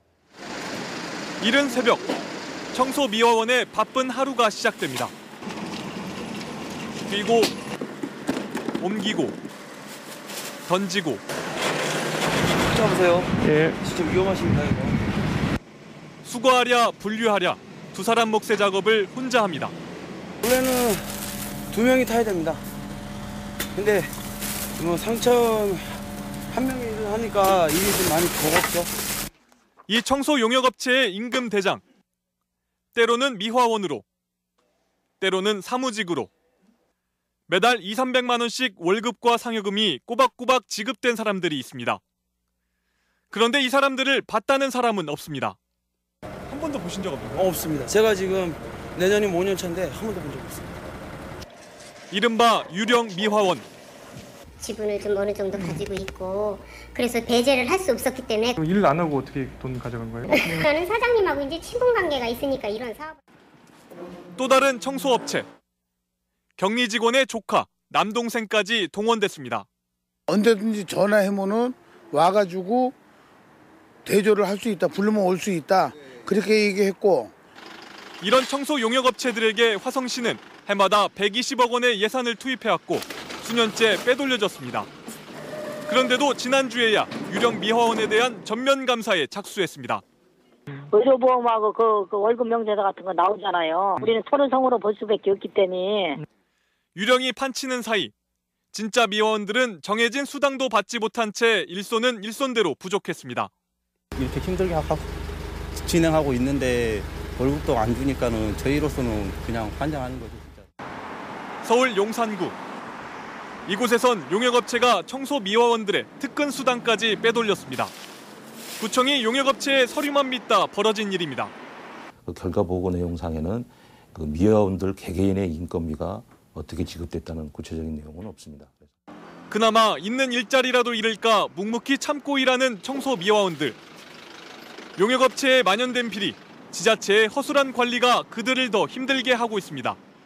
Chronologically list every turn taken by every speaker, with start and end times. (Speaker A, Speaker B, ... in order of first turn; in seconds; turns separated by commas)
Speaker A: 1.4-2.1, Speaker A: 2.7-5.1, Speaker A: 7.1-7.5, Speaker A: 8.8-9.4, Speaker A: 10.7-11.2, Speaker B: 12.6-15.0, Speaker C: 13.4-13.8, Speaker A: 16.2-19.7, Speaker B: 20.4-21.2, Speaker B: 21.7-22.6, Speaker B: 23.8-24.1, Speaker B: 24.8-26.0, Speaker B: 26.5-28.9, Speaker A: 29.9-31.8, Speaker A: 33.0-34.0, Speaker A: 35.2-36.3, Speaker A: 37.5-42.0, Speaker A: 43.3-45.6, Speaker A: 46.5-47.5, Speaker B: 47.4-50.7, Speaker A: 52.1-53.7, Speaker D: 54.6-58.6, Speaker C: 58.6-60.6, Speaker D: 60.3-63.2, Speaker A: 64.4-65.5, Speaker A: 66.6-69.7, Speaker E: 70.3-73.0, Speaker E: 74.0-77.3, Speaker A: 78.2-84.9, Speaker A: 85.9-90.0, Speaker F: 90.9-96.2, Speaker A: 97.0-98.1, Speaker A: 98.7-103.5, Speaker G: 104.2-105.1, Speaker G: 105.8-110.7, Speaker A: 111.6-112.6, Speaker A: 113.7-117.9, Speaker A: 118.8-121.5, Speaker H: 122.2-128.9, Speaker A: 129.5-133.8, Speaker A: 135.0-140.0